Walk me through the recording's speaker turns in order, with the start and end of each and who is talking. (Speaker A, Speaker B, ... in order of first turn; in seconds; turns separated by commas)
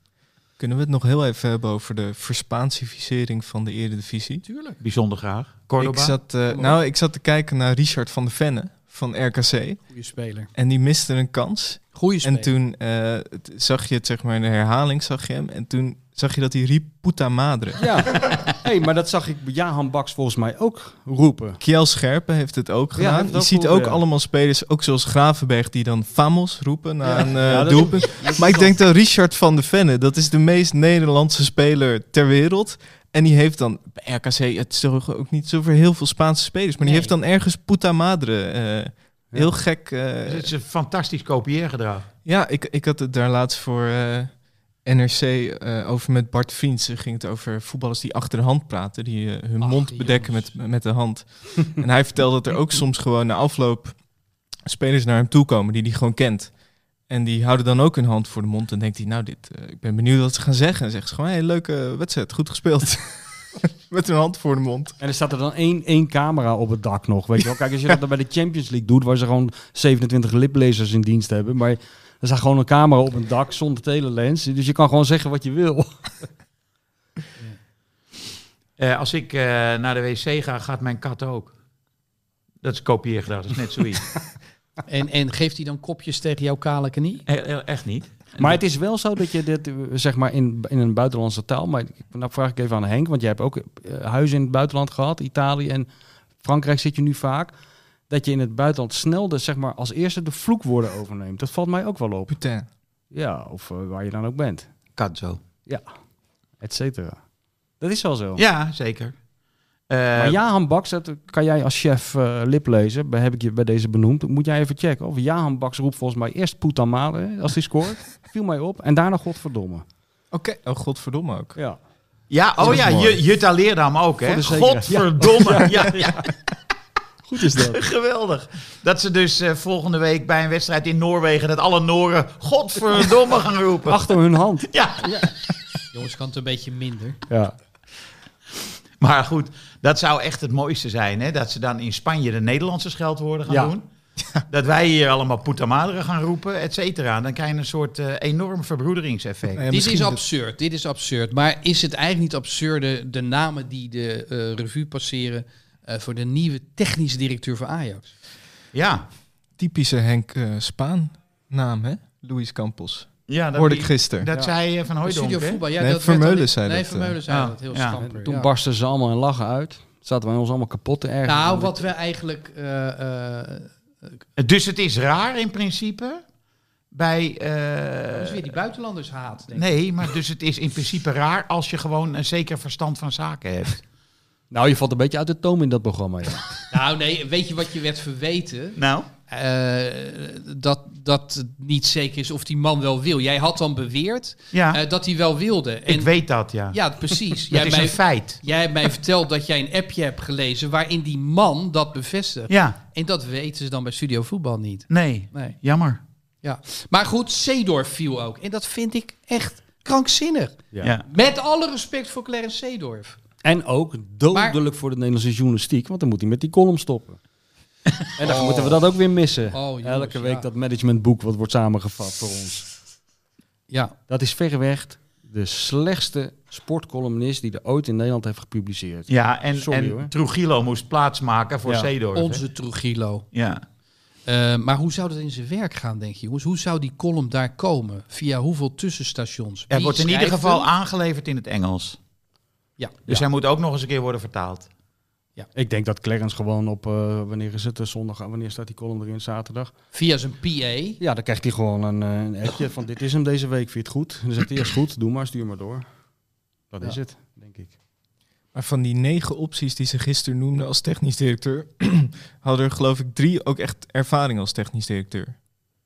Speaker A: 0.6-4.4, Speaker B: 4.4-4.8, Speaker C: 4.8-6.2, Speaker A: 5.8-10.0, Speaker B: 6.5-6.8, Speaker B: 9.9-10.5, Speaker A: 10.5-17.8, Speaker B: 11.9-12.5, Speaker D: 17.8-21.6, Speaker A: 21.6-40.5, Speaker D: 22.9-24.0, Speaker B: 27.0-27.7, Speaker D: 27.4-28.8, Speaker B: 36.8-37.1, Speaker C: 40.2-42.1, Speaker A: 42.2-54.0, Speaker B: 49.6-50.6, Speaker A: 54.6-56.5, Speaker A: 57.1-65.0, Speaker D: 65.0-76.3, Speaker C: 78.8-81.5, Speaker C: 82.6-84.2, Speaker B: 84.9-87.2, Speaker C: 87.3-88.6, Speaker D: 88.4-95.9, Speaker D: 96.4-97.5, Speaker D: 98.1-102.4, Speaker A: 102.3-102.7, Speaker D: 103.1-104.7, Speaker C: 105.0-105.4, Speaker D: 106.6-107.2, Speaker D: 107.8-108.4, Speaker C: 108.4-109.2, Speaker C: 109.9-110.4, Speaker D: 110.1-119.8, Speaker A: 120.3-121.6, Speaker D: 121.5-121.8, Speaker C: 122.3-126.3, Speaker D: 122.6-123.2, Speaker D: 124.2-126.3, Speaker D: 127.2-127.8, Speaker C: 127.5-134.0, Speaker D: 133.8-135.3, Speaker C: 134.7-135.3, Speaker B: 135.9-137.2, Speaker D: 137.3-137.5, Speaker C: 139.0-143.9, Speaker D: 143.5-143.7, Speaker C: 144.5-149.7, Speaker A: 149.6-150.2, Speaker B: 149.7-158.1, Speaker C: 158.7-159.1, Speaker A: 159.6-164.3, Speaker C: 163.3-165.6, Speaker B: 165.0-168.5, Speaker A: 165.8-167.2, Speaker C: 167.3-168.0, Speaker D: 167.9-171.9, Speaker B: 171.2-174.1, Speaker C: 174.4-176.2, Speaker C: 176.9-178.5, Speaker B: 178.2-179.7, Speaker C: 179.5-183.8, Speaker D: 184.5-186.5, Speaker B: 186.7-196.1, Speaker C: 188.8-189.1, Speaker C: 194.5-194.8, Speaker C: 195.9-196.8, Speaker B: 196.7-205.6, Speaker C: 197.5-198.4, Speaker C: 202.5-202.8, Speaker C: 204.9-206.0, Speaker B: 206.4-213.2, Speaker C: 210.8-211.1, Speaker D: 213.4-217.2, Speaker B: 214.3-214.6, Speaker D: 218.2-222.7, Speaker B: 218.2-218.8, Speaker B: 219.5-220.5, Speaker B: 223.7-223.9, Speaker D: 224.1-230.1, Speaker C: 229.1-232.4, Speaker D: 231.6-231.9, Speaker B: 232.1-233.3, Speaker C: 233.3-233.6, Speaker B: 234.2-240.7, Speaker C: 239.7-242.0, Speaker C: 243.1-244.7, Speaker D: 245.5-249.7, Speaker B: 249.9-251.0, Speaker D: 251.0-255.8, Speaker D: 256.7-257.7, Speaker A: 258.5-265.4